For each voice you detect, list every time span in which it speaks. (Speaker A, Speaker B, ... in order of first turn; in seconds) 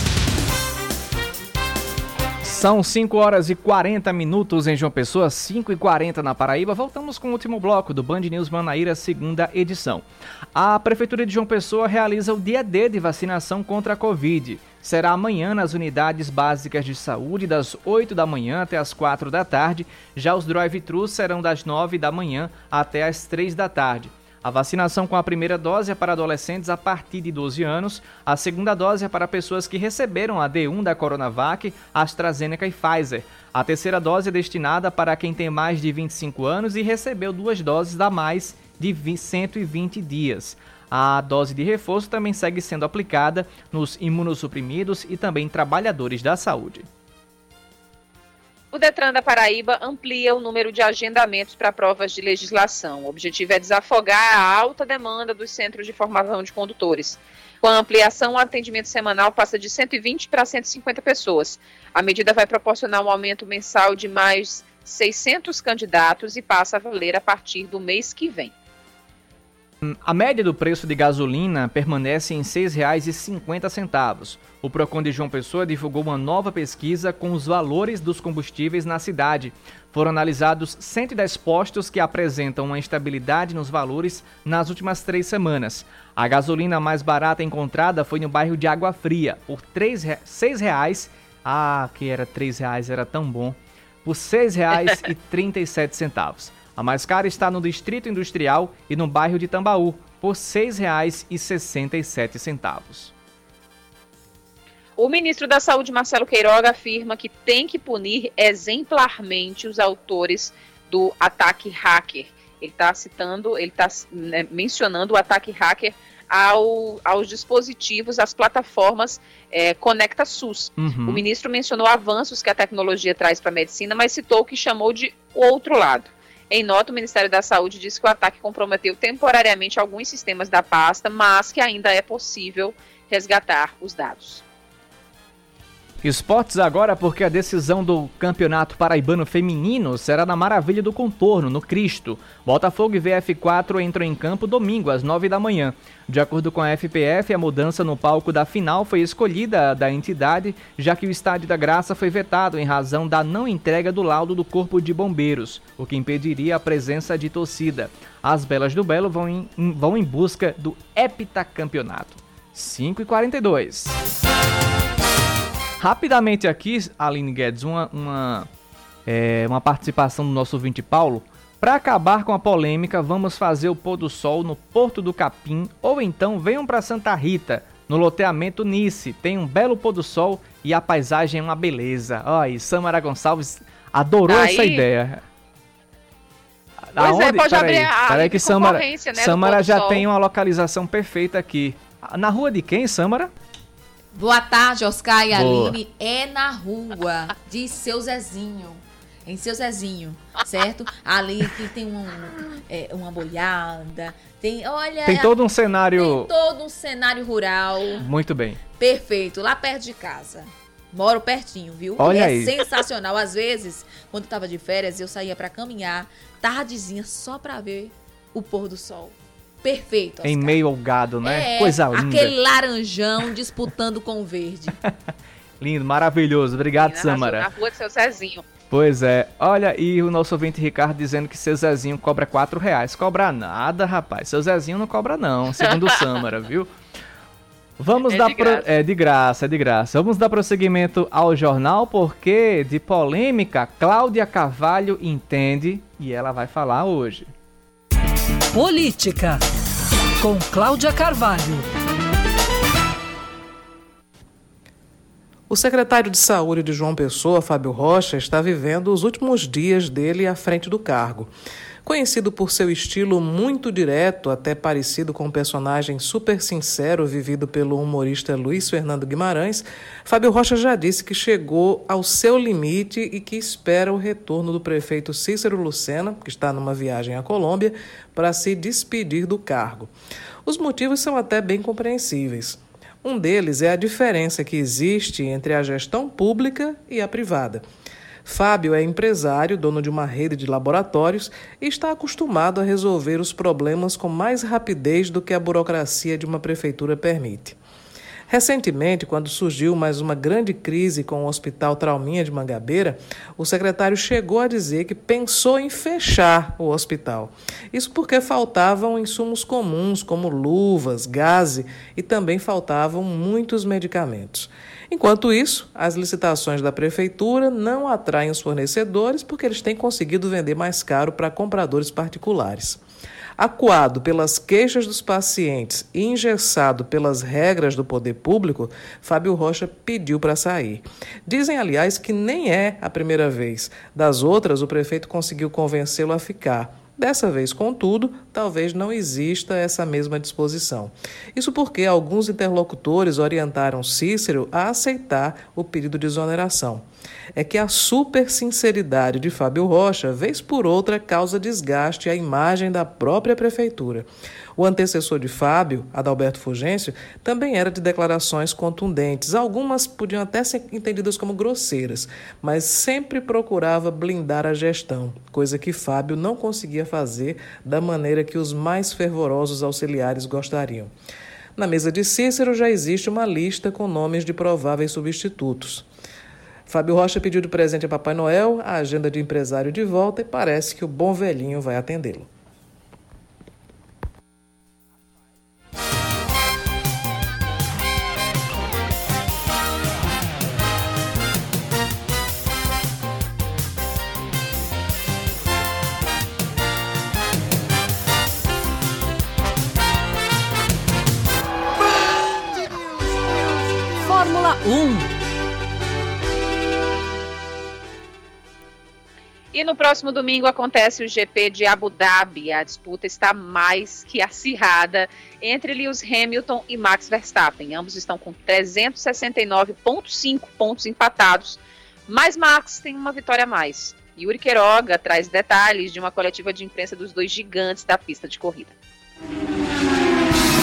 Speaker A: 2.4-46.9, 69.8-103.1, 120.8-121.2, 136.0-164.0, 165.8-168.5, 169.1-185.2, 186.9-193.3, 195.3-195.8, 205.0-206.3, 208.0-208.6, 212.0-212.6, 220.2-222.3, 225.6-227.5, 228.7-236.7, 237.8-247.3
Speaker B: 48.7-68.5, 105.0-134.4, 184.3-184.8, 187.0-190.0, 226.8-228.4, 238.1-238.7, 409.5-428.7
Speaker C: 194.1-205.3, 205.9-208.0, 208.8-220.6, 221.2-224.8
Speaker D: 248.5-249.4, 250.2-251.7, 404.0-405.1
Speaker E: 255.5-261.3, 261.8-279.9, 280.4-287.6, 288.2-297.6, 298.3-322.8, 323.4-370.9, 371.6-375.9, 376.7-382.3